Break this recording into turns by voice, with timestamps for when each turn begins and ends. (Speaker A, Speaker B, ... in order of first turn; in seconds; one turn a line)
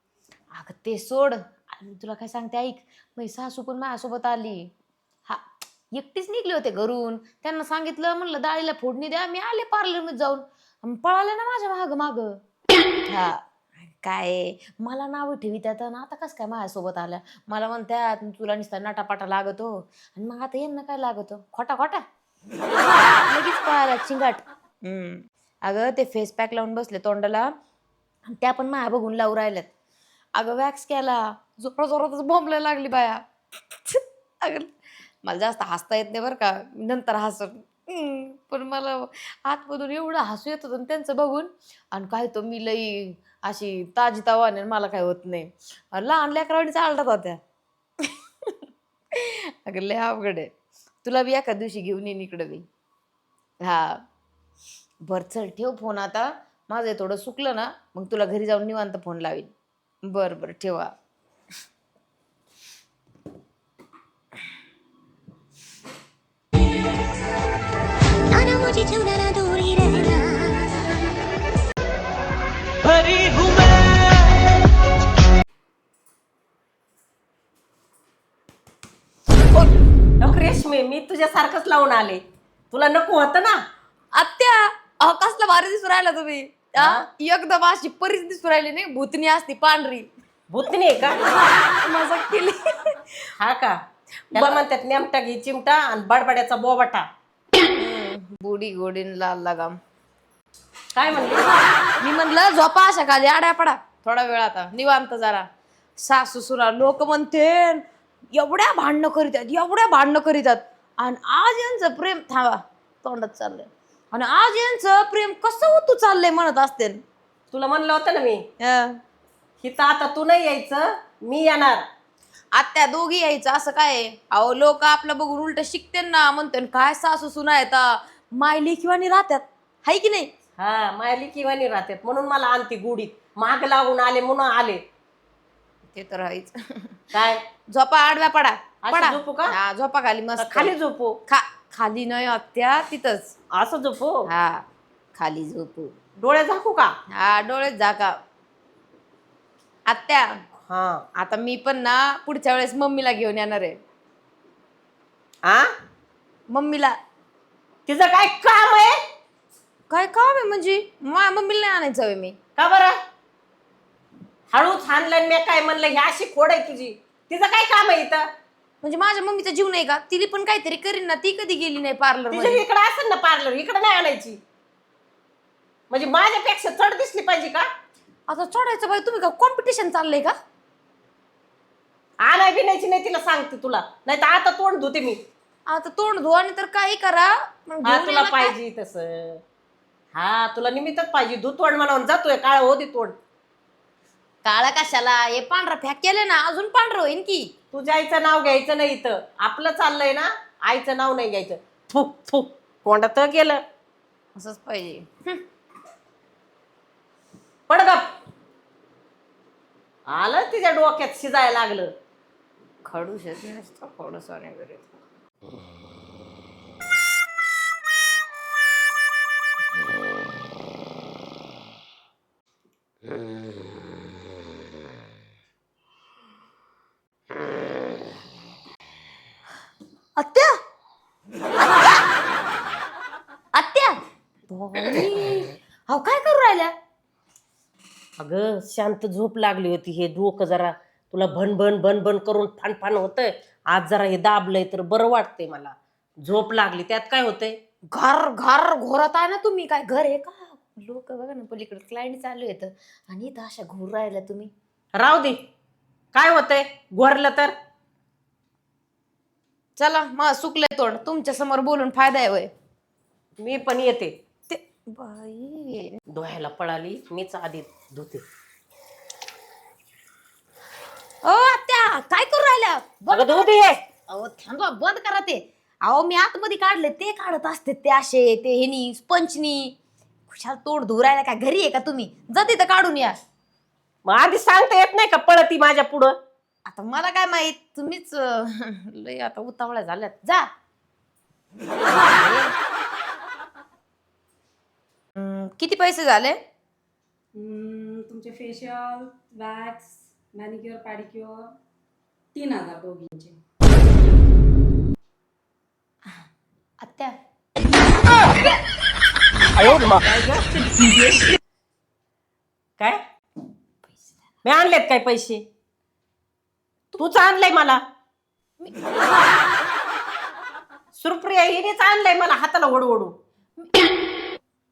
Speaker A: 0.6-4.7
Speaker A: 5.9-12.4
Speaker A: 13.1-22.0
Speaker A: 22.9-27.5
Speaker A: 28.3-29.7
Speaker A: 30.4-33.2
Speaker A: 33.7-34.7
Speaker A: 35.2-47.4
Speaker A: 49.2-50.5
Speaker A: 51.0-52.6
Speaker A: 53.6-54.0
Speaker A: 55.1-59.5
Speaker A: 60.0-60.9
Speaker B: 68.3-70.7
Speaker C: 73.1-73.7
Speaker C: 80.2-83.6
Speaker A: 84.2-90.1
Speaker C: 86.8-87.0
Speaker C: 90.5-91.2
Speaker A: 91.8-93.1
Speaker C: 93.4-93.8
Speaker C: 94.3-97.0
Speaker A: 97.6-99.7
Speaker C: 101.0-101.5
Speaker A: 102.0-105.5
Speaker A: 106.0-117.0
Speaker C: 117.5-118.5
Speaker A: 118.6-119.0
Speaker C: 119.6-121.8
Speaker A: 122.5-130.3
Speaker C: 130.6-134.8
Speaker A: 135.9-137.0
Speaker C: 137.1-137.4
Speaker A: 137.7-140.7
Speaker C: 138.8-139.5
Speaker C: 140.4-141.2
Speaker A: 141.3-143.3
Speaker C: 143.6-144.3
Speaker A: 144.3-144.6
Speaker A: 145.2-145.9
Speaker C: 146.2-146.9
Speaker A: 147.2-148.1
Speaker A: 149.9-150.4
Speaker C: 150.7-151.0
Speaker A: 151.2-153.8
Speaker A: 156.5-157.0
Speaker C: 157.9-159.0
Speaker A: 159.9-162.4
Speaker C: 162.6-163.0
Speaker C: 164.5-168.3
Speaker A: 168.8-172.6
Speaker C: 172.3-174.4
Speaker C: 175.9-177.7
Speaker A: 178.3-180.3
Speaker C: 182.2-185.2
Speaker A: 185.7-188.5
Speaker C: 187.8-189.4
Speaker C: 190.2-193.2
Speaker A: 194.4-197.5
Speaker C: 197.7-203.6
Speaker A: 204.4-205.4
Speaker C: 207.7-208.1
Speaker C: 210.1-211.9
Speaker A: 212.8-214.9
Speaker A: 230.2-230.6
Speaker A: 231.6-232.1
Speaker A: 233.5-234.0
Speaker A: 234.5-236.7
Speaker C: 238.2-247.6
Speaker A: 247.9-254.5
Speaker C: 255.0-255.4
Speaker C: 256.1-257.5
Speaker A: 259.8-262.5
Speaker C: 263.4-264.1
Speaker A: 264.5-265.9
Speaker C: 266.1-268.2
Speaker A: 271.2-273.6
Speaker C: 273.1-273.8
Speaker A: 274.1-279.8
Speaker A: 280.3-283.1
Speaker C: 284.1-286.1
Speaker A: 286.7-290.5
Speaker A: 291.9-292.5
Speaker A: 295.2-296.4
Speaker D: 297.4-301.4
Speaker D: 302.4-303.4
Speaker A: 306.8-307.1
Speaker C: 309.6-311.4
Speaker C: 314.4-315.4
Speaker C: 316.9-317.8
Speaker C: 321.0-323.1